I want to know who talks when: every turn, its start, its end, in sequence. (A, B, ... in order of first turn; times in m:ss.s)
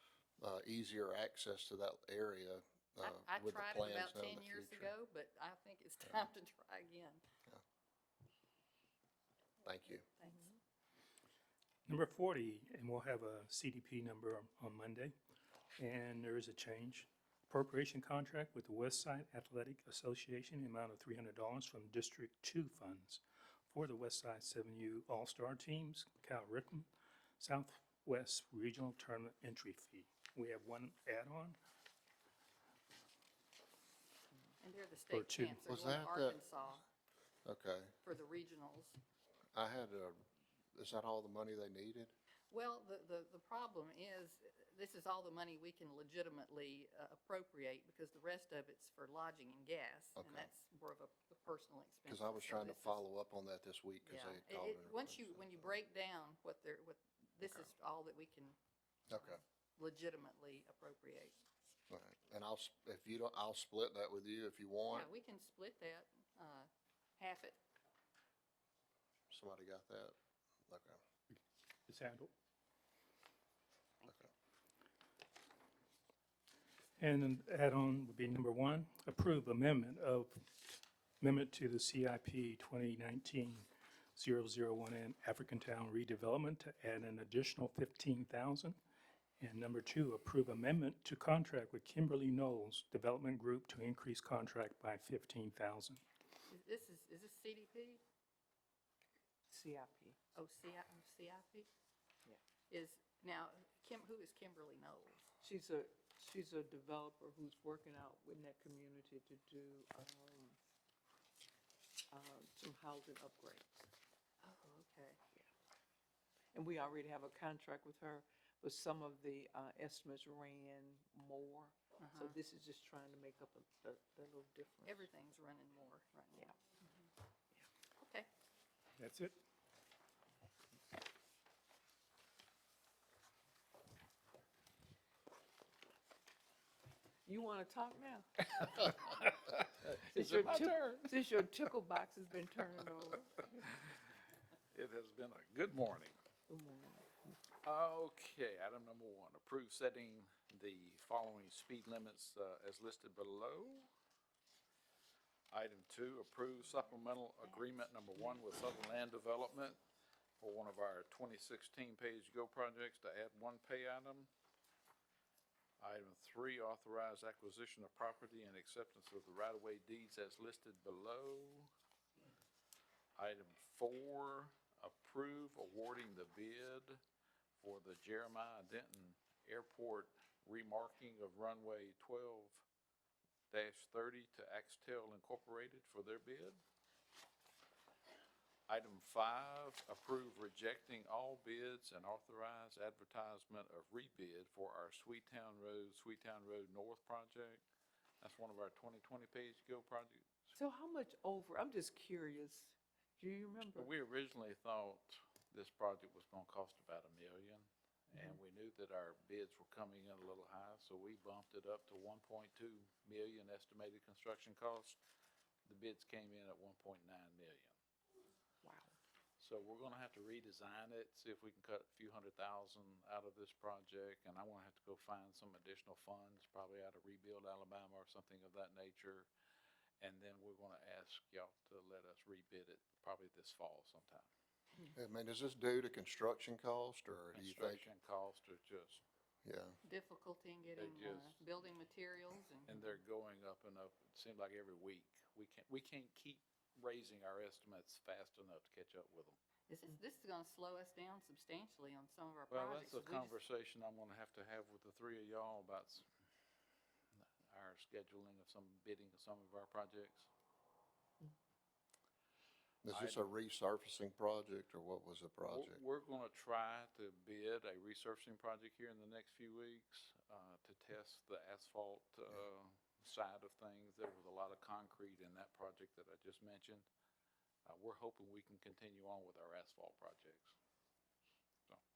0:00.4-0:04.9 A
0:03.0-0:07.2 B
0:09.6-0:10.0 A
0:10.2-0:10.5 B
0:11.9-0:15.1 C
0:15.8-0:26.9 C
0:27.4-0:31.6 C
0:34.6-0:36.8 B
0:35.1-0:35.6 C
0:35.7-0:36.4 A
0:37.4-0:37.9 A
0:38.0-0:39.0 B
0:39.5-0:40.2 A
0:40.7-0:42.1 A
0:42.5-0:53.0 B
0:50.2-0:50.5 A
0:52.1-0:55.8 A
0:54.0-0:58.6 B
0:57.4-0:57.7 A
0:59.1-0:59.4 A
0:59.2-1:01.3 B
1:01.9-1:05.1 A
1:04.9-1:07.6 B
1:09.3-1:10.1 A
1:10.7-1:11.0 A
1:11.9-1:12.3 C
1:14.0-1:14.3 B
1:17.0-1:28.8 C
1:29.4-1:36.0 C
1:36.5-1:38.0 B
1:39.5-1:40.2 D
1:40.3-1:41.7 B
1:42.7-1:45.2 B
1:45.4-1:50.6 D
1:52.1-1:53.9 D
1:54.4-1:55.2 B
1:56.5-2:05.1 D
2:02.0-2:02.4 B
2:04.8-2:07.1 B
2:08.0-2:08.3 B
2:09.0-2:09.3 C
2:17.2-2:18.9 D
2:18.5-2:21.3 E
2:19.8-2:23.6 D
2:24.7-2:26.1 E
2:26.5-2:27.4 D
2:27.6-2:33.9 E
2:35.5-2:39.8 E
2:40.4-2:44.3 E
2:45.8-2:51.7 E
2:53.2-2:57.0 E
2:57.6-3:02.6 E
3:03.5-3:06.6 E
3:08.7-3:17.6 E
3:18.2-3:20.5 E
3:20.5-3:23.9 D
3:23.7-3:35.0 E
3:35.6-3:37.8 E
3:38.6-3:38.9 D
3:39.4-3:49.3 E
3:50.0-3:54.3 E
3:54.9-3:57.8 A
3:57.3-3:59.0 E
3:59.4-3:59.8 A
3:59.8-4:03.0 B
4:00.8-4:01.4 E
4:02.7-4:09.4 E
4:09.7-4:13.4 B
4:12.5-4:16.0 E
4:17.2-4:20.3 E
4:22.8-4:25.8 A
4:22.9-4:23.2 E
4:25.5-4:36.9 E
4:37.6-4:40.5 E